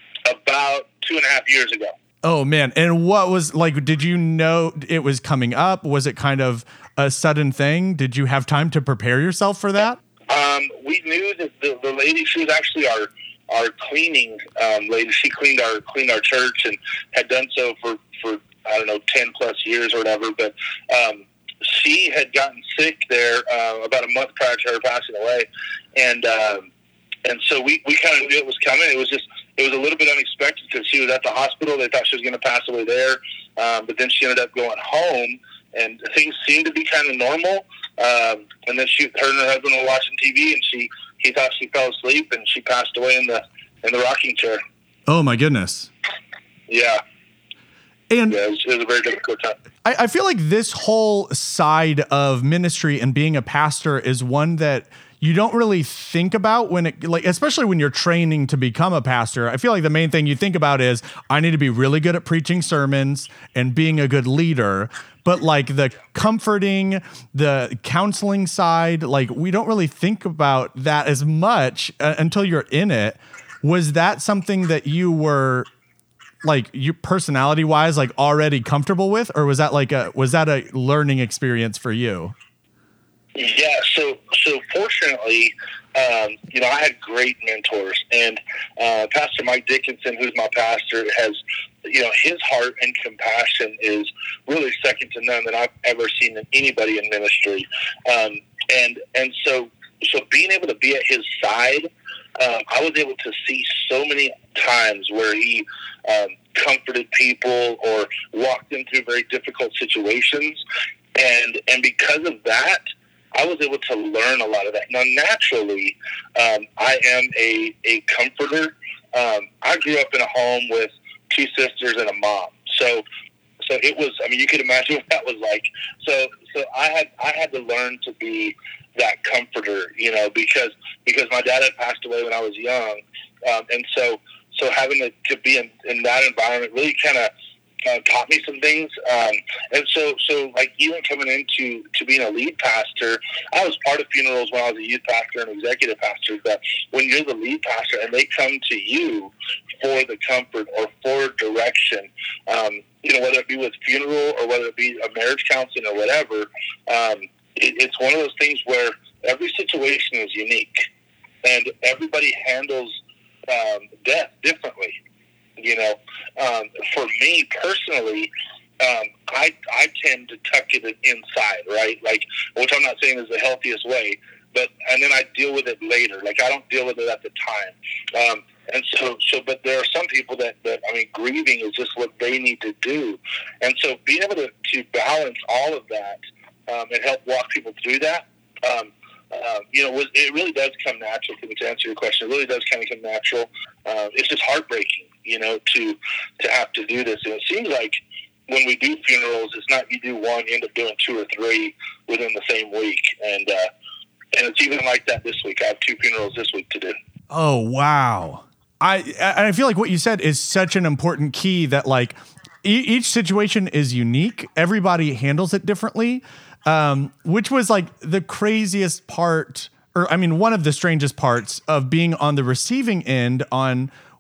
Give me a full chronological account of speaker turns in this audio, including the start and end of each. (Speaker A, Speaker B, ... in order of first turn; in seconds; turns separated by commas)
Speaker A: 0.3-1.9, Speaker B: 2.2-10.0, Speaker A: 10.3-26.7, Speaker A: 27.2-44.6, Speaker B: 45.1-45.9, Speaker A: 46.7-47.0, Speaker B: 48.1-48.4, Speaker A: 48.3-49.6, Speaker B: 49.9-75.7, Speaker B: 76.4-82.4, Speaker A: 83.4-110.6, Speaker A: 111.2-112.8, Speaker A: 113.3-123.0, Speaker A: 123.6-137.3, Speaker A: 137.8-160.9, Speaker A: 161.4-165.0, Speaker A: 165.6-197.9, Speaker A: 198.5-203.7, Speaker A: 204.3-207.0, Speaker B: 207.3-223.9